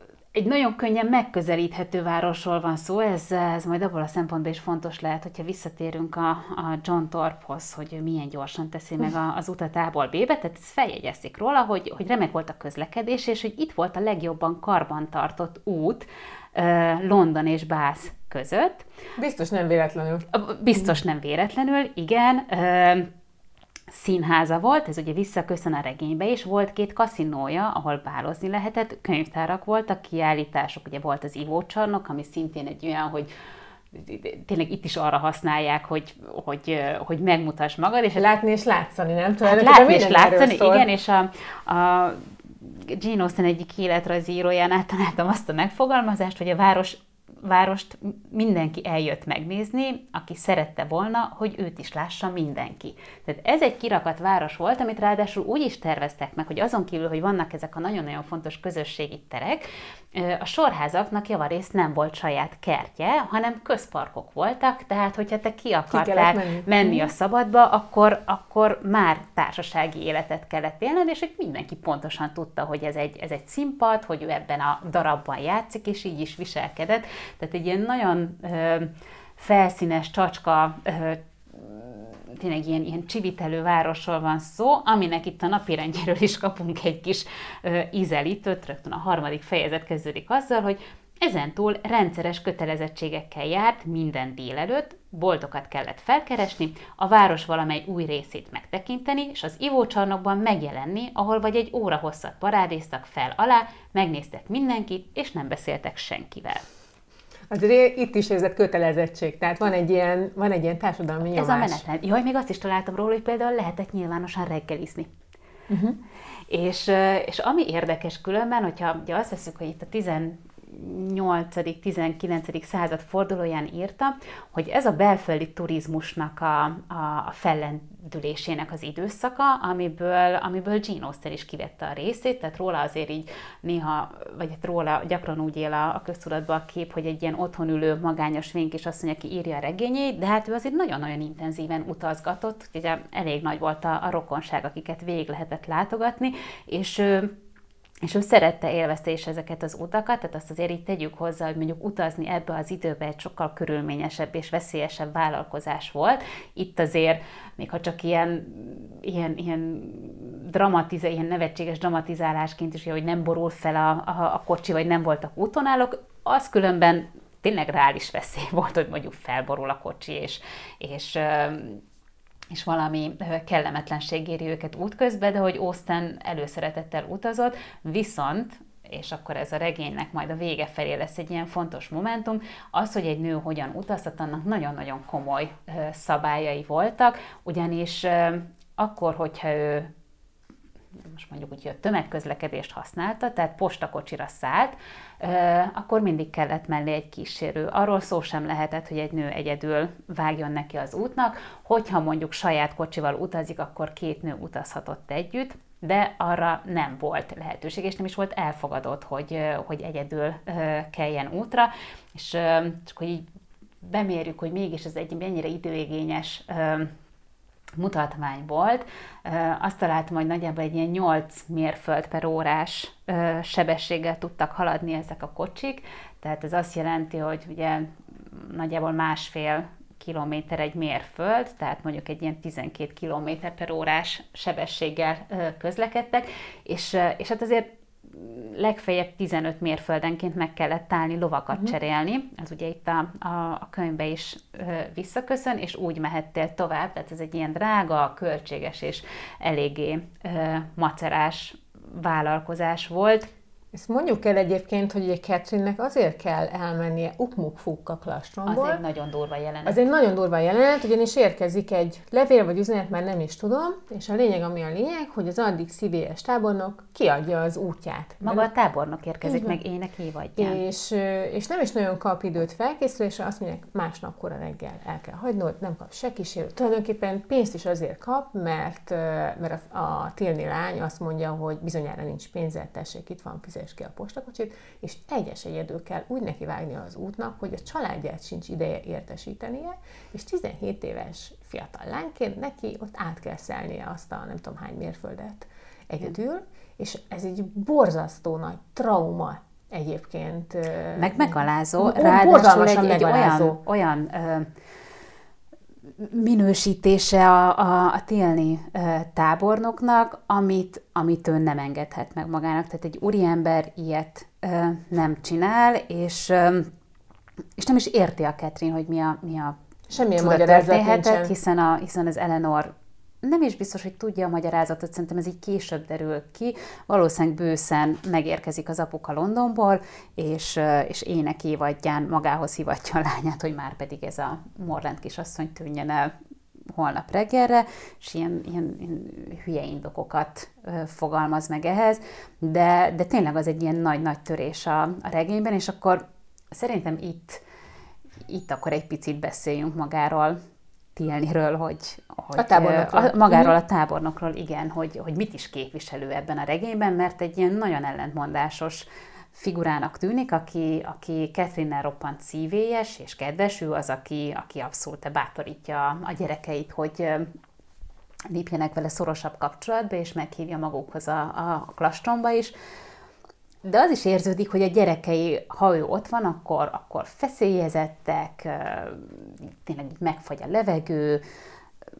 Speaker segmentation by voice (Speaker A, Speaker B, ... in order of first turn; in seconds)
Speaker A: 0.3-18.9, 20.3-23.1, 23.9-33.3, 33.9-38.2, 39.4-106.6, 111.3-115.1, 116.5-147.3, 148.0-171.8, 172.5-189.9, 191.0-213.2, 213.8-216.9, 217.8-253.3, 258.5-259.8, 268.2-270.6, 300.9-304.5, 306.0-316.7, 317.6-319.6, 320.2-336.1, 336.7-347.4, 348.3-350.4, 350.9-367.3, 368.3-372.5, 373.6-381.2
Speaker B: 19.2-20.9, 38.1-40.9, 65.9-67.1, 107.5-111.8, 115.7-116.0, 253.7-258.8, 259.6-268.5, 269.2-269.6, 270.4-303.6, 319.9-321.3, 352.4-353.5